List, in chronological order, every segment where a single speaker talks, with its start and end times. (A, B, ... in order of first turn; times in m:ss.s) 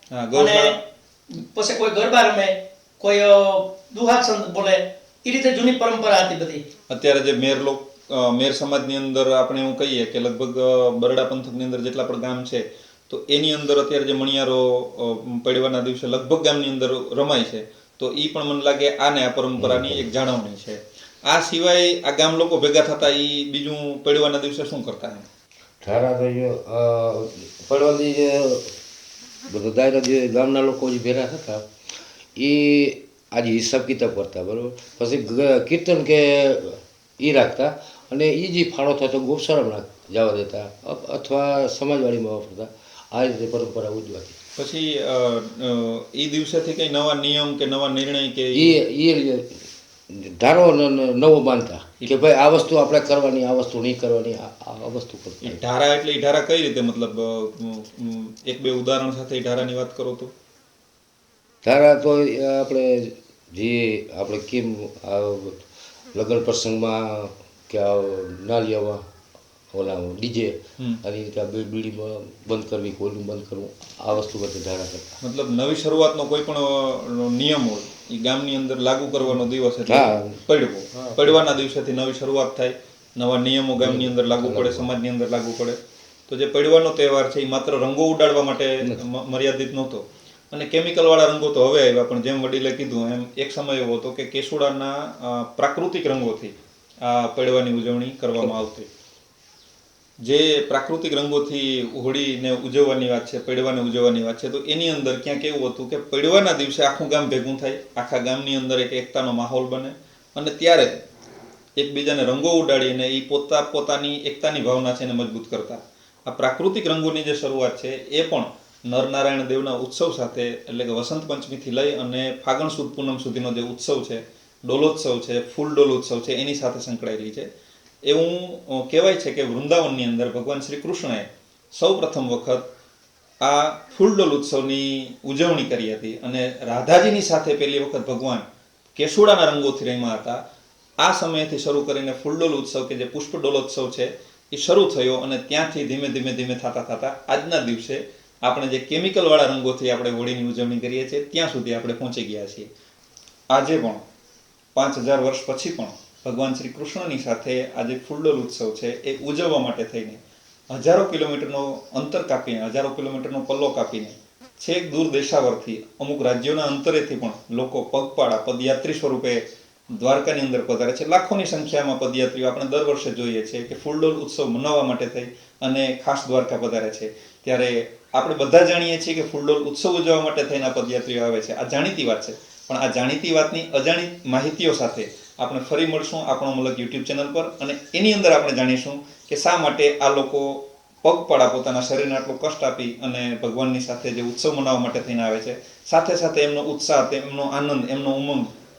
0:00.1-0:00.7 A
0:00.3-0:06.6 B
0:06.9-0:25.3 A
0:19.6-0:20.1 C
0:25.8-0:28.7 C
0:29.5-0:31.6 C
0:32.4-0:44.4 C
0:44.6-0:48.8 A
0:48.5-0:55.6 C
0:55.4-1:00.3 A
1:01.6-1:05.6 C
1:06.1-1:09.0 C
1:09.7-1:15.2 C
1:15.2-1:38.9 A
1:19.8-1:20.4 C
1:23.8-1:24.9 C
1:40.2-1:51.0 A
1:51.8-2:07.5 A
2:08.0-2:12.7 A
2:13.4-2:20.4 A
2:21.0-2:32.7 A
2:33.5-2:34.0 A
2:34.7-2:49.4 A
2:50.0-3:18.5 A